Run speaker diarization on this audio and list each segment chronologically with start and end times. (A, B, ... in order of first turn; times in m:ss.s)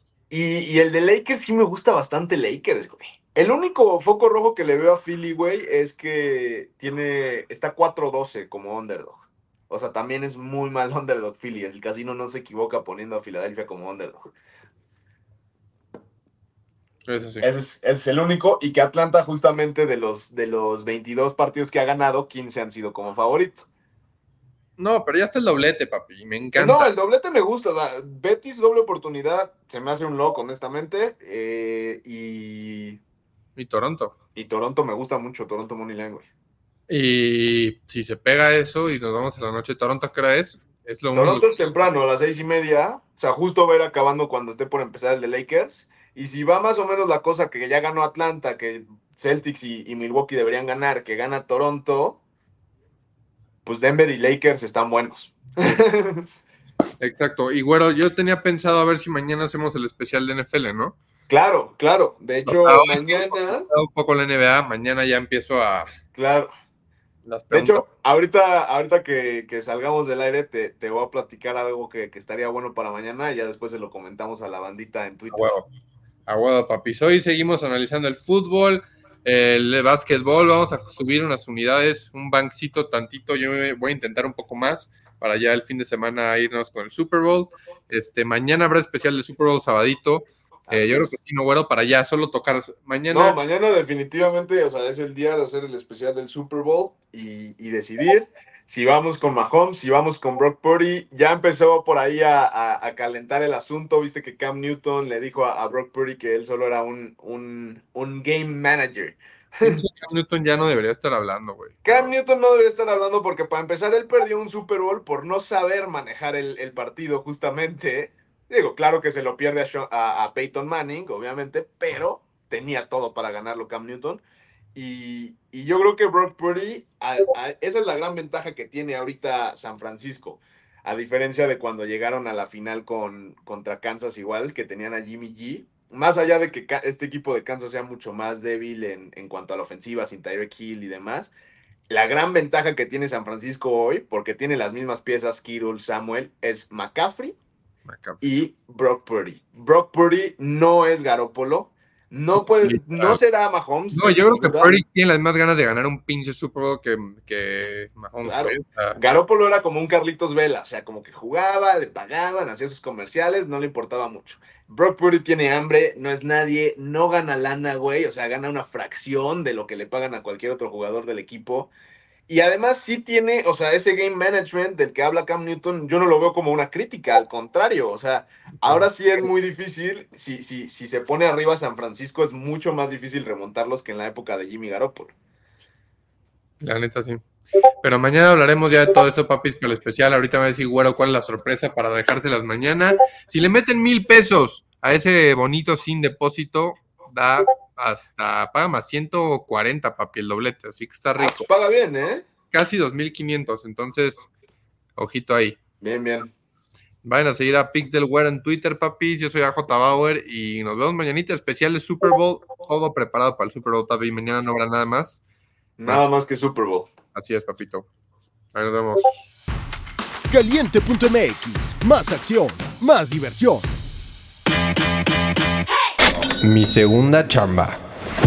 0:00.3-0:14.3 A
0:17.0-0:17.4 B
0:17.4-0:23.7 A
0:24.8-0:26.9 B
0:26.6-0:33.0 A
0:33.6-0:34.1 B
0:34.3-0:36.3 A
0:36.9-0:41.5 B
0:41.1-0:52.2 A
0:53.6-0:56.2 A
0:57.0-1:00.9 B
1:01.3-1:03.6 A
1:02.4-1:05.9 B
1:06.1-1:06.5 A
1:07.2-1:07.8 B
1:07.5-1:15.5 A
1:15.3-1:15.7 B
1:16.3-1:33.4 B
1:30.7-1:31.1 A
1:33.1-1:49.8 A
1:49.6-1:52.1 B
1:51.8-2:04.2 A
2:04.7-2:21.3 A
2:21.9-2:27.4 A
2:27.8-2:28.2 B
2:28.2-2:34.8 A
2:32.6-2:33.2 B
2:33.9-2:39.0 B
2:38.2-2:51.7 A
2:52.3-3:05.1 A
3:06.6-3:07.2 B
3:07.8-3:21.5 B
3:21.2-3:22.2 A
3:22.5-3:24.3 B
3:25.0-3:25.6 B
3:25.8-3:26.3 A
3:27.0-3:35.2 B
3:35.8-3:36.9 A
3:37.1-3:37.8 B
3:38.5-3:39.2 B
3:40.3-3:43.7 C
3:46.4-3:47.8 B